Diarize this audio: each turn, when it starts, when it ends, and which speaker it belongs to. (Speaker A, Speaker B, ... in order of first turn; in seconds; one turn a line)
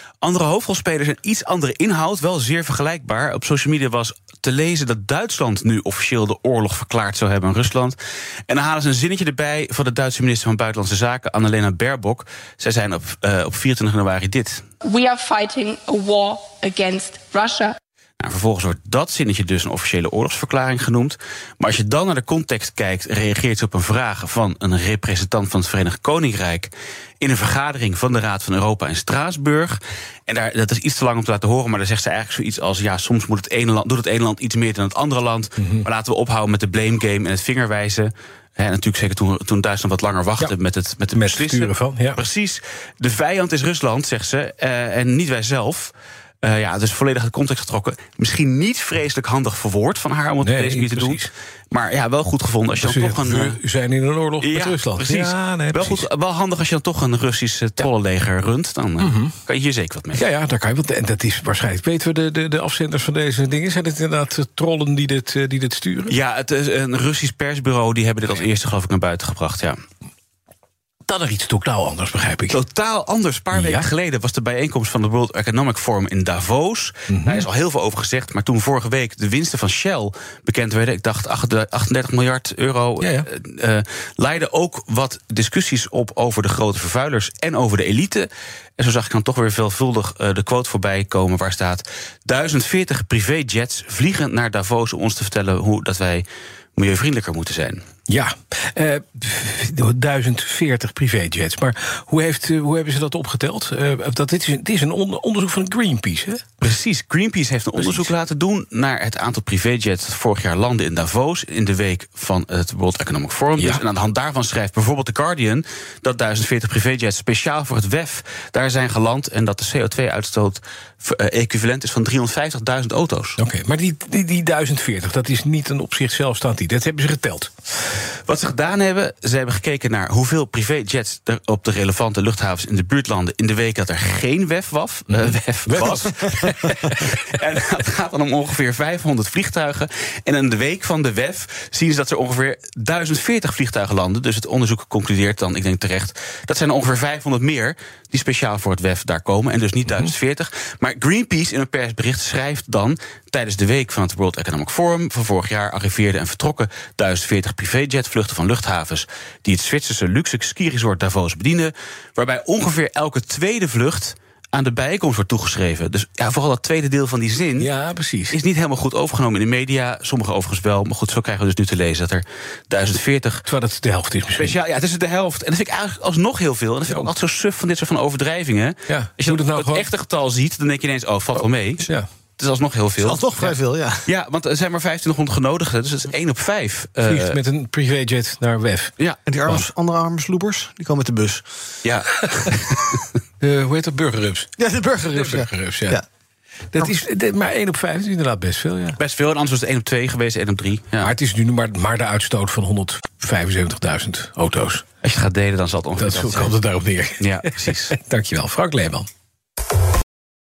Speaker A: 0.2-8.0
Speaker A: 8.5-14.7
Speaker B: 14.8-17.8
Speaker A: 18.2-53.6
Speaker C: 35.6-35.9
Speaker C: 41.1-42.2
Speaker C: 50.4-51.3
Speaker C: 52.8-56.0
Speaker A: 54.4-60.2
Speaker C: 59.0-59.3
Speaker C: 60.1-66.1
Speaker A: 66.0-69.8
Speaker C: 71.0-72.6
Speaker A: 72.5-96.2
Speaker C: 73.5-73.9
Speaker C: 77.1-77.4
Speaker C: 83.0-83.3
Speaker A: 96.8-97.8
Speaker C: 98.1-106.4
Speaker A: 106.6-123.4
Speaker C: 107.8-108.1
Speaker C: 123.4-127.5
Speaker A: 128.2-167.7
Speaker C: 135.1-137.2
Speaker C: 167.6-168.4
Speaker A: 168.3-173.4
Speaker C: 173.5-174.6
Speaker A: 174.3-181.8
Speaker C: 176.9-177.1
Speaker C: 178.9-179.9
Speaker A: 182.4-183.5
Speaker D: 183.0-184.0
Speaker A: 184.0-187.4
Speaker C: 187.0-189.7
Speaker D: 189.2-191.7
Speaker A: 191.8-193.0
Speaker C: 193.4-194.6
Speaker D: 194.6-196.0
Speaker C: 195.1-196.0
Speaker C: 196.7-199.0
Speaker A: 199.0-201.1
Speaker C: 201.0-204.8
Speaker A: 205.0-206.5
Speaker C: 206.0-209.1
Speaker A: 207.2-207.9